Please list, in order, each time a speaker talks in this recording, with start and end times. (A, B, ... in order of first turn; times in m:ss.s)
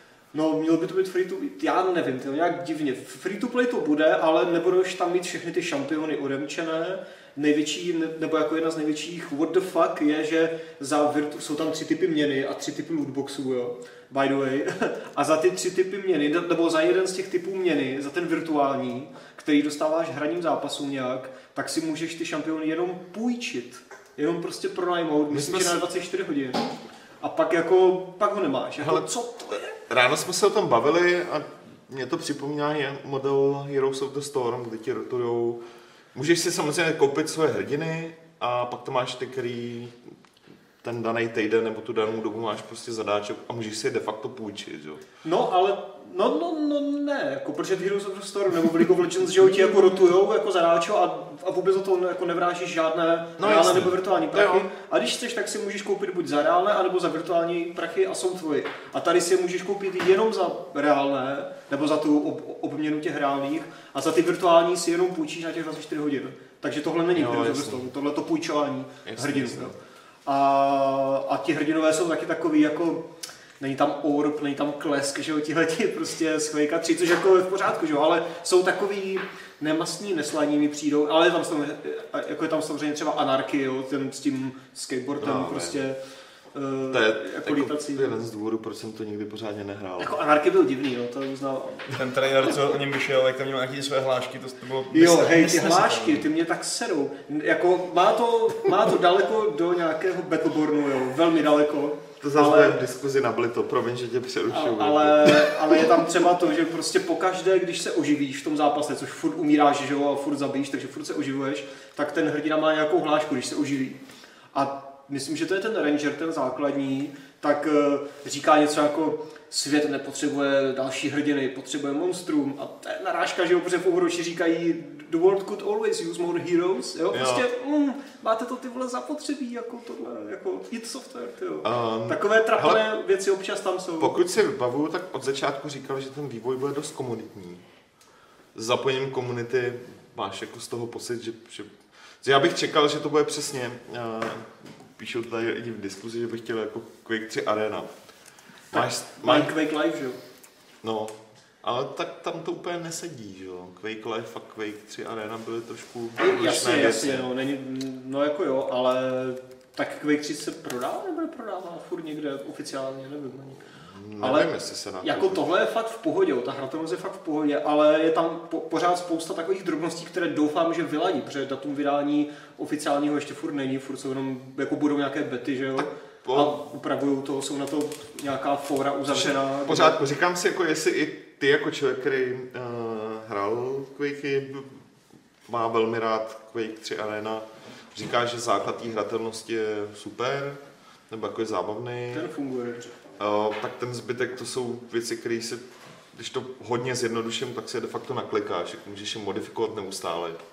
0:00.3-0:29.8 A
0:25.3-0:25.9 B
0:28.8-0:29.1 B
0:29.8-0:35.6 B
0:36.2-0:40.1 B
0:40.8-0:45.0 B
0:45.2-1:26.0 A
0:53.4-0:54.7 B
1:07.1-1:07.9 B
1:09.1-1:09.8 B
1:25.2-1:25.9 B
1:26.5-1:28.2 A
1:26.9-1:30.2 B
1:30.0-1:32.0 A
1:31.9-1:36.2 C
1:34.9-1:42.8 A
1:42.2-1:45.8 B
1:44.5-1:54.0 A
1:54.5-2:14.1 A
2:07.1-2:07.4 B
2:11.6-2:12.8 B
2:14.0-2:17.6 B
2:18.5-2:27.9 B
2:28.7-2:29.5 B
2:28.7-2:30.2 A
2:30.8-2:37.3 B
2:36.2-2:43.6 A
2:43.8-2:45.5 B
2:44.2-2:44.5 A
2:45.0-3:00.1 A
2:55.8-2:56.6 B
2:59.1-3:04.8 B
3:05.5-3:12.3 B
3:12.1-3:13.0 A
3:13.2-3:20.4 B